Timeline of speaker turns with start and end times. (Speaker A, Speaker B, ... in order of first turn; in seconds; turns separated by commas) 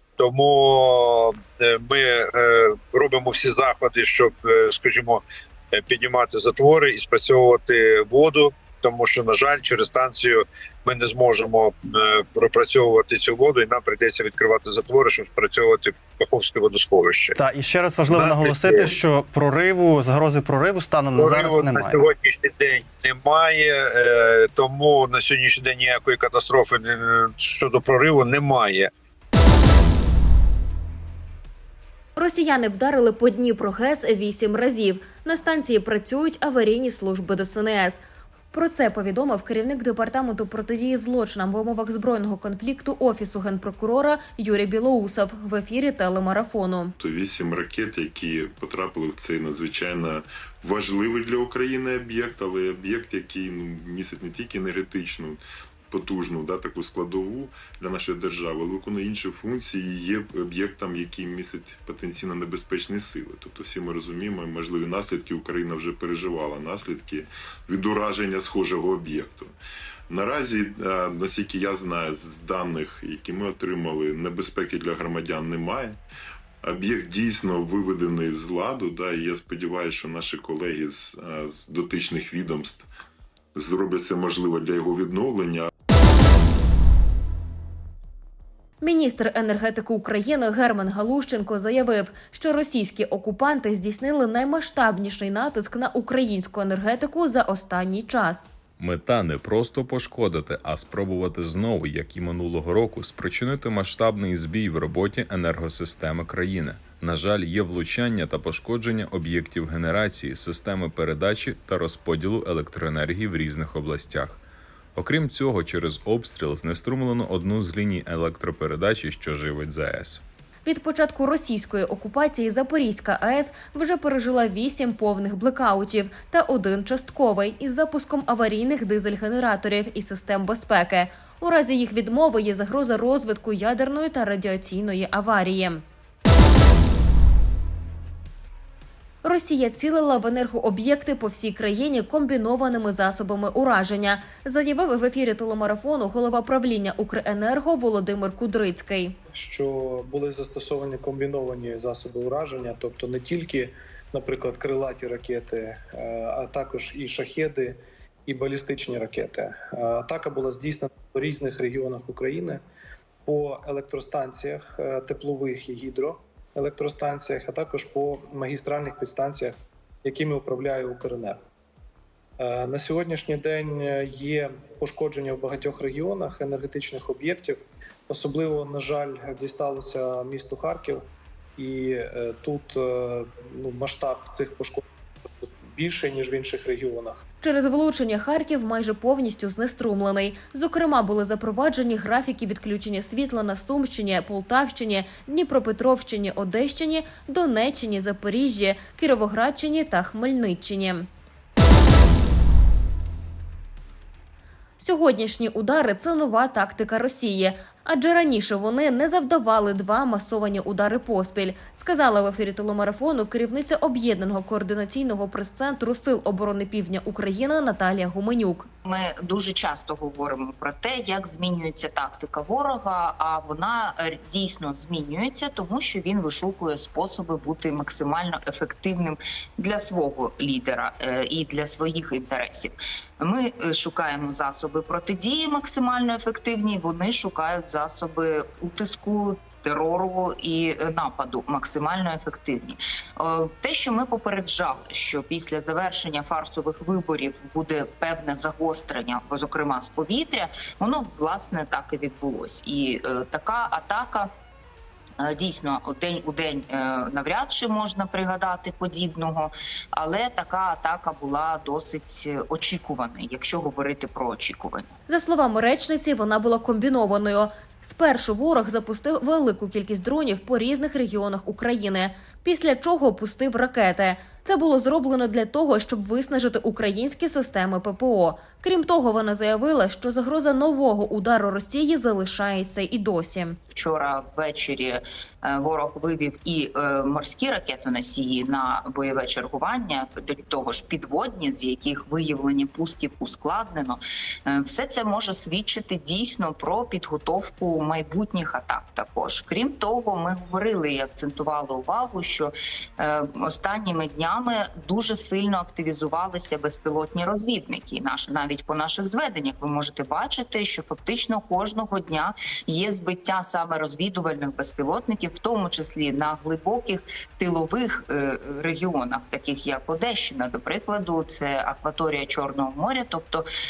Speaker A: 0.2-17.4, Speaker B: 17.4-22.0, Speaker A: 18.1-19.0, Speaker A: 21.1-28.9, Speaker C: 32.1-46.9, Speaker D: 47.0-69.5, Speaker D: 70.1-76.0, Speaker D: 76.6-82.9, Speaker D: 83.5-85.7, Speaker C: 88.8-98.5, Speaker E: 98.8-114.4, Speaker E: 115.0-120.2, Speaker C: 120.6-135.8, Speaker C: 139.2-149.2, Speaker F: 149.3-157.8, Speaker F: 158.3-162.6, Speaker F: 163.2-171.4, Speaker F: 172.4-181.0, Speaker F: 181.6-184.8, Speaker F: 185.6-187.2, Speaker C: 187.4-201.1, Speaker C: 204.8-218.7, Speaker G: 218.8-254.3, Speaker G: 255.2-264.9, Speaker C: 265.1-283.6, Speaker G: 283.7-323.5